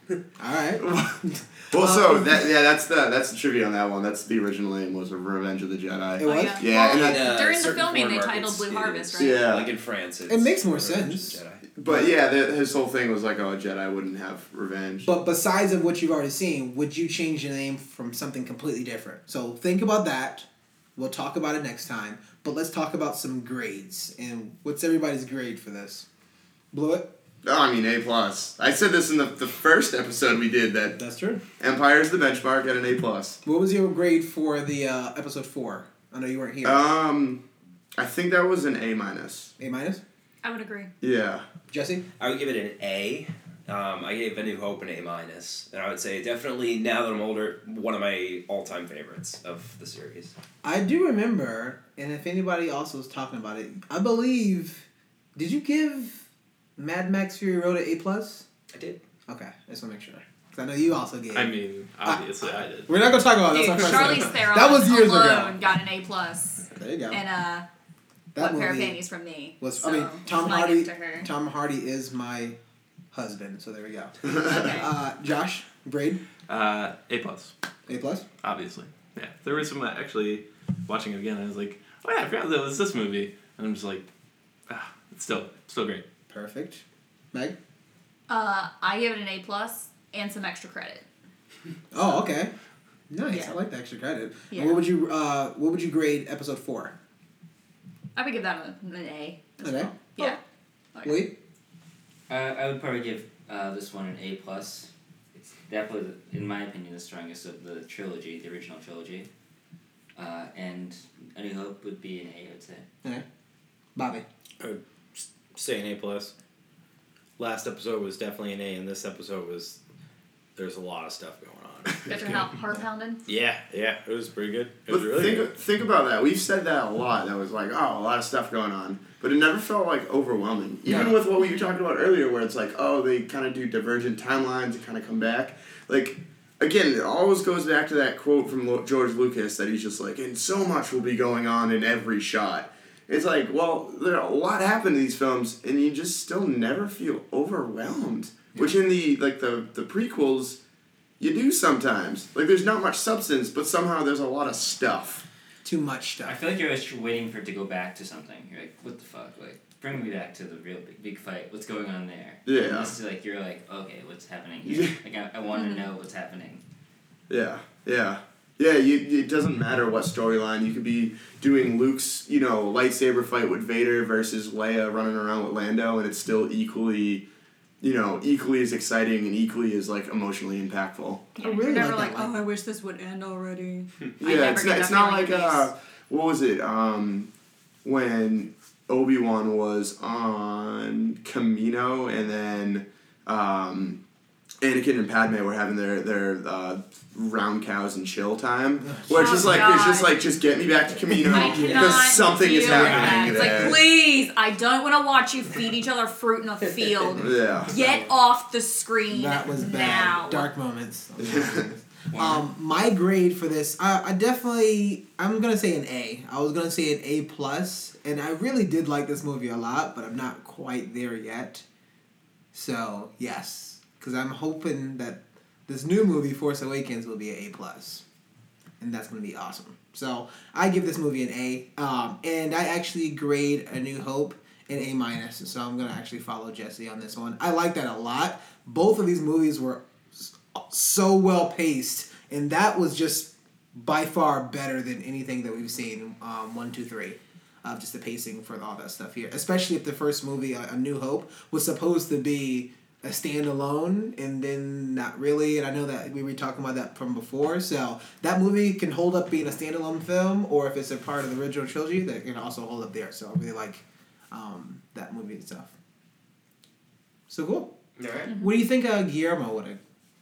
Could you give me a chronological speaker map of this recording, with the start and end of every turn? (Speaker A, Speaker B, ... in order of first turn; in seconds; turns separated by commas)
Speaker A: 0.4-2.5, Speaker B: 0.8-7.4, Speaker A: 6.2-6.7, Speaker C: 6.2-9.5, Speaker D: 6.8-11.6, Speaker B: 9.2-9.7, Speaker A: 10.3-12.1, Speaker B: 11.8-15.1, Speaker A: 15.1-26.1, Speaker A: 26.7-27.1, Speaker B: 27.4-31.0, Speaker A: 31.0-31.4, Speaker B: 31.6-33.4, Speaker A: 33.5-37.0, Speaker B: 36.6-37.4, Speaker B: 38.0-39.5, Speaker A: 39.6-40.0, Speaker C: 40.4-40.9, Speaker B: 41.0-41.5, Speaker A: 41.7-42.0, Speaker D: 42.2-50.4, Speaker A: 50.6-54.9, Speaker A: 55.4-56.2, Speaker A: 56.8-58.5, Speaker D: 58.7-59.0, Speaker A: 59.3-62.3, Speaker E: 61.3-62.9, Speaker A: 62.8-65.6, Speaker C: 63.5-67.7, Speaker A: 66.7-67.2, Speaker A: 68.3-69.0, Speaker C: 68.4-71.3, Speaker A: 69.6-72.6, Speaker A: 73.1-76.2, Speaker C: 74.4-74.9, Speaker E: 76.5-77.5, Speaker A: 77.9-78.2, Speaker E: 78.4-84.1, Speaker E: 84.7-86.0, Speaker A: 86.3-86.8, Speaker C: 88.3-91.0, Speaker A: 91.9-92.5, Speaker A: 93.1-96.9, Speaker C: 93.3-93.6, Speaker C: 94.5-94.8, Speaker C: 98.2-100.4, Speaker A: 99.6-100.4, Speaker C: 100.9-101.3, Speaker A: 101.0-101.4, Speaker F: 102.3-109.3, Speaker F: 110.2-112.9, Speaker A: 114.0-114.3, Speaker G: 114.6-116.3, Speaker G: 117.4-119.8, Speaker G: 120.6-122.4, Speaker C: 122.1-123.2, Speaker G: 123.3-125.5, Speaker B: 124.9-150.6, Speaker B: 151.2-155.2, Speaker A: 155.6-156.4, Speaker F: 156.2-166.6, Speaker B: 162.5-163.0, Speaker B: 164.7-165.0, Speaker C: 165.5-165.8, Speaker B: 167.3-177.3, Speaker B: 177.8-181.3, Speaker C: 181.4-185.7, Speaker A: 181.4-182.4, Speaker B: 184.2-187.3, Speaker B: 187.8-194.0, Speaker B: 194.6-203.8, Speaker A: 198.8-199.7, Speaker C: 199.1-200.1, Speaker A: 201.1-203.8, Speaker C: 201.3-210.5, Speaker G: 202.8-203.2, Speaker A: 207.2-208.1, Speaker B: 207.2-207.7, Speaker A: 209.1-221.7, Speaker B: 211.2-211.6, Speaker F: 212.1-212.5, Speaker A: 222.5-228.0, Speaker A: 228.8-265.7, Speaker A: 267.3-267.8, Speaker D: 268.0-268.3, Speaker C: 268.3-268.5, Speaker A: 268.3-269.8